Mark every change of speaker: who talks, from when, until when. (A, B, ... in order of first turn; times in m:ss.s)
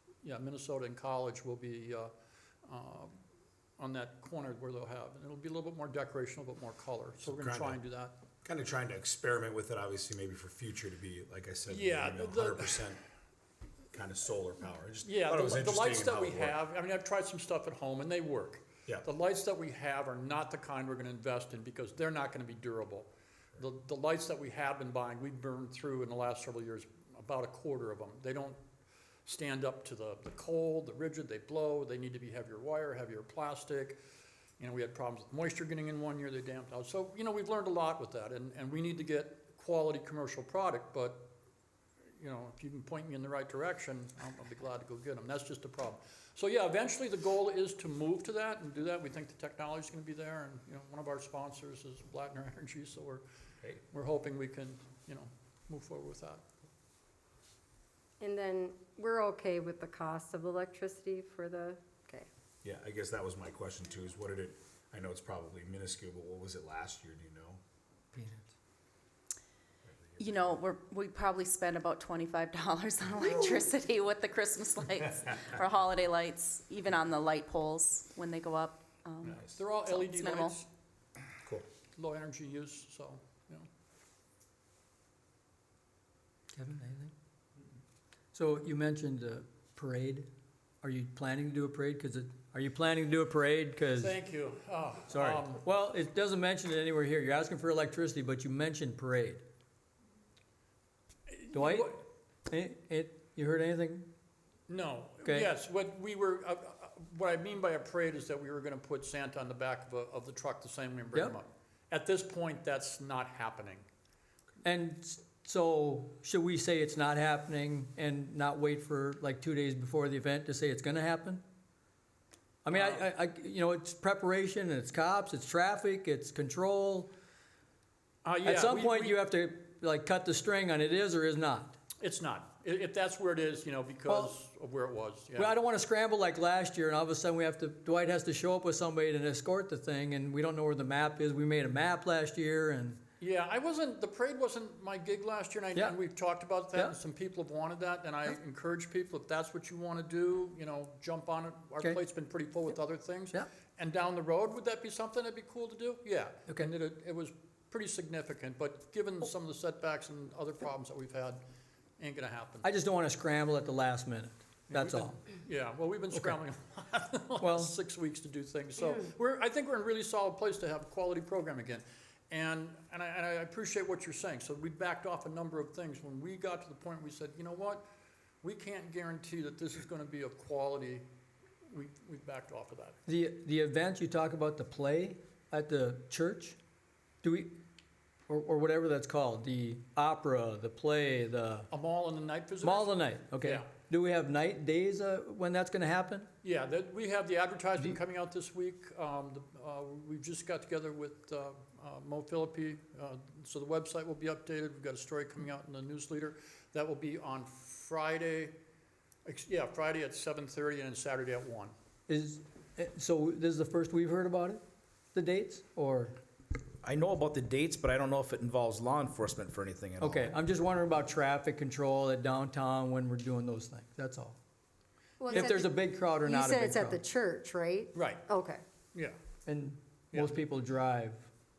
0:00.2-0:02.1 A
0:02.7-0:03.2 A
0:03.8-0:08.2 A
0:07.2-0:07.8 B
0:08.4-0:13.0 B
0:11.7-0:12.8 A
0:13.9-0:16.6 B
0:15.0-0:28.6 A
0:29.2-0:34.0 A
0:34.6-0:41.3 A
0:42.2-0:53.2 A
0:53.8-0:56.4 A
0:58.2-1:02.3 C
1:02.6-1:07.6 B
1:08.1-1:08.5 D
1:09.9-1:10.6 B
1:10.2-1:20.6 E
1:19.2-1:20.7 A
1:22.0-1:23.7 A
1:26.5-1:27.1 D
1:28.3-1:30.3 D
1:30.8-1:34.1 D
1:34.0-1:35.6 A
1:35.1-1:39.4 D
1:41.3-1:42.0 A
1:41.5-1:44.1 D
1:44.7-1:53.8 A
1:45.2-1:45.5 D
1:54.6-2:01.4 D
2:02.6-2:07.1 D
2:02.7-2:03.0 A
2:08.2-2:09.2 A
2:08.4-2:11.8 D
2:12.0-2:15.5 A
2:14.1-2:14.3 D
2:15.3-2:23.0 D
2:23.2-2:41.4 A
2:42.0-2:42.7 A
2:42.6-2:45.1 D
2:44.7-2:57.8 A
2:47.4-2:47.7 D
2:58.4-3:01.0 A
3:01.7-3:03.0 A
3:03.0-3:06.6 D
3:07.2-3:07.5 D
3:08.3-3:11.7 D
3:11.7-3:13.7 A
3:12.6-3:16.3 D
3:16.4-3:28.6 A
3:29.2-3:31.7 A
3:32.1-3:34.6 D
3:35.1-3:36.2 D
3:36.8-3:40.3 F
3:40.0-3:44.4 D
3:45.2-3:45.7 C
3:45.3-3:47.0 D
3:46.2-3:48.6 C
3:47.9-3:48.2 A
3:49.4-3:51.3 D
3:50.1-3:50.4 A